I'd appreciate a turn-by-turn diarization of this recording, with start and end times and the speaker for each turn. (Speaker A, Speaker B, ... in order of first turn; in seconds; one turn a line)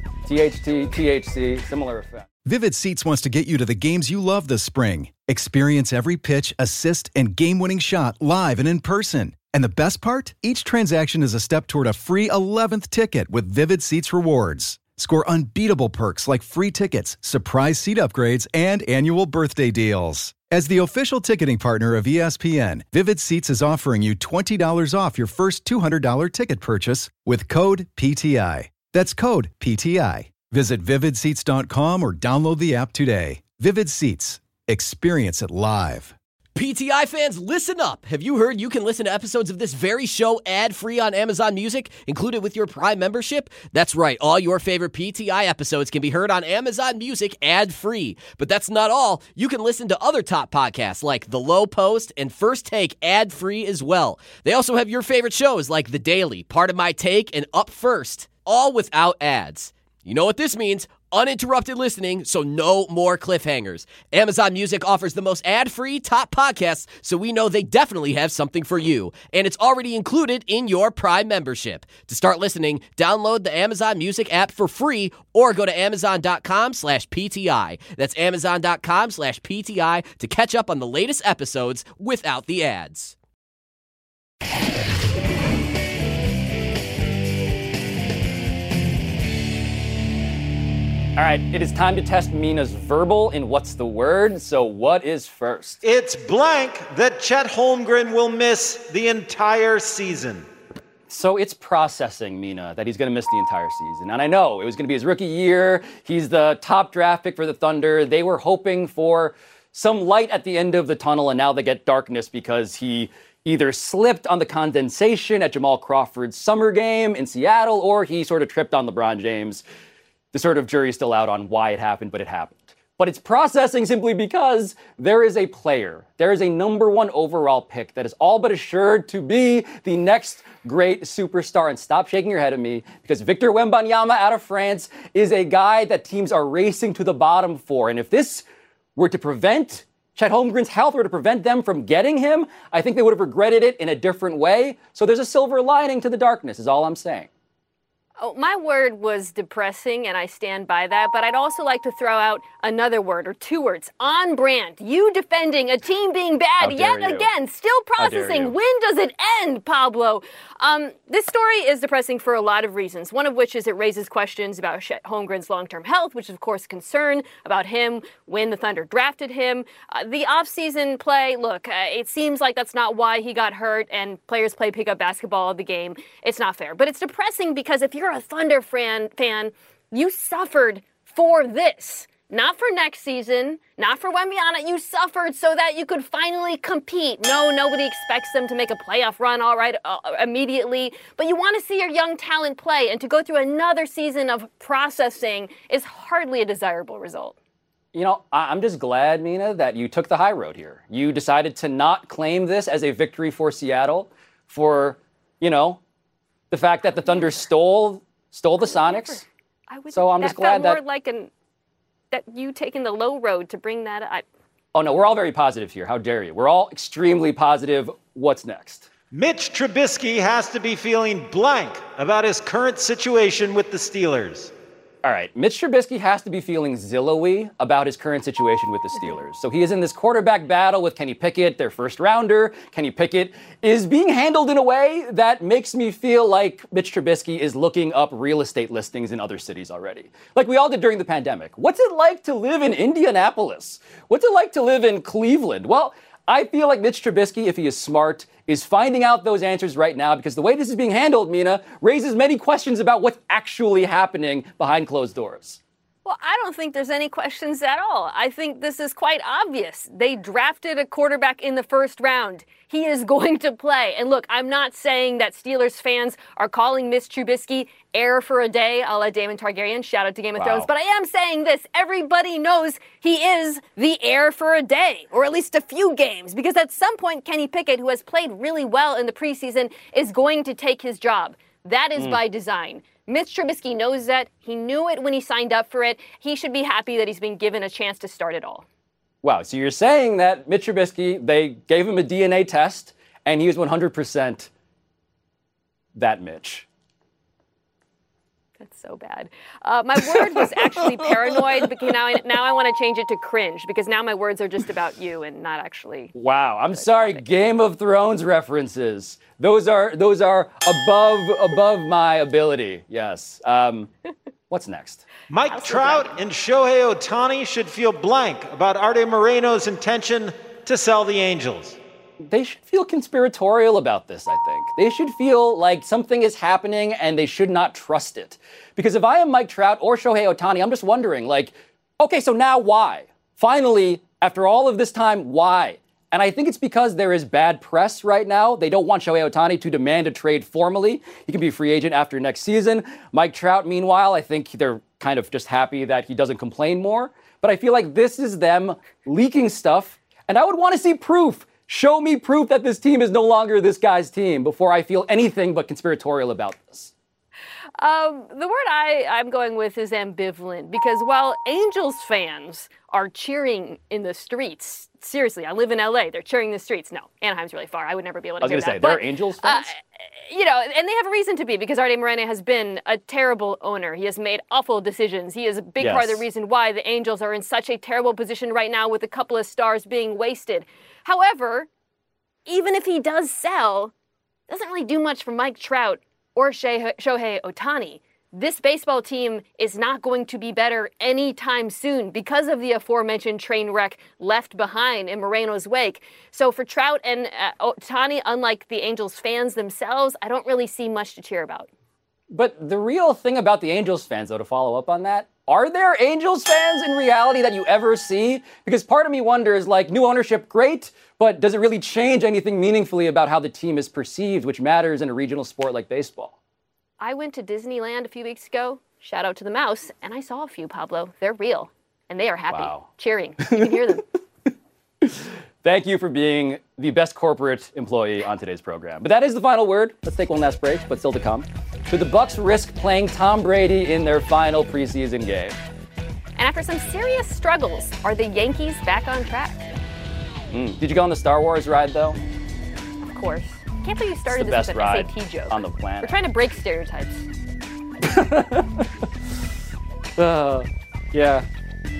Speaker A: 0.3-2.3
Speaker B: 2.5-36.1
Speaker C: 36.6-83.2
Speaker A: 91.2-95.8
Speaker D: 95.8-100.5
Speaker A: 101.1-119.6
Speaker A: 120.3-138.4
Speaker A: 139.0-147.3
Speaker E: 148.2-197.3
Speaker A: 156.6-157.3
Speaker A: 158.0-158.5
Speaker A: 197.9-205.8
Speaker A: 206.5-209.2
Speaker E: 208.6-211.3
Speaker A: 209.9-210.8
Speaker E: 212.1-214.2
Speaker A: 214.7-218.9
Speaker D: 219.1-224.5
Speaker A: 225.0-255.6
Speaker E: 256.1-288.6
Speaker A: 270.4-270.7
Speaker A: 289.2-294.5
Speaker A: 295.9-296.7
Speaker E: 298.6-306.1
Speaker A: 300.1-301.9
Speaker A: 306.1-313.9
Speaker E: 306.8-307.2
Speaker A: 314.5-315.0
Speaker D: 315.3-321.8
Speaker E: 315.4-316.2
Speaker A: 322.3-356.9
Speaker E: 357.8-381.7
Speaker A: 368.4-369.7
Speaker A: 375.8-376.2
Speaker E: 382.5-383.9
Speaker E: 384.5-401.7
Speaker A: 402.3-416.4
Speaker E: 417.0-424.0
Speaker A: 422.5-422.9
Speaker A: 423.4-424.0
Speaker A: 425.0-435.6
Speaker E: 436.4-439.7
Speaker A: 440.5-442.2
Speaker E: 443.0-447.3
Speaker A: 444.3-446.2
Speaker A: 448.0-448.9
Speaker A: 450.2-451.5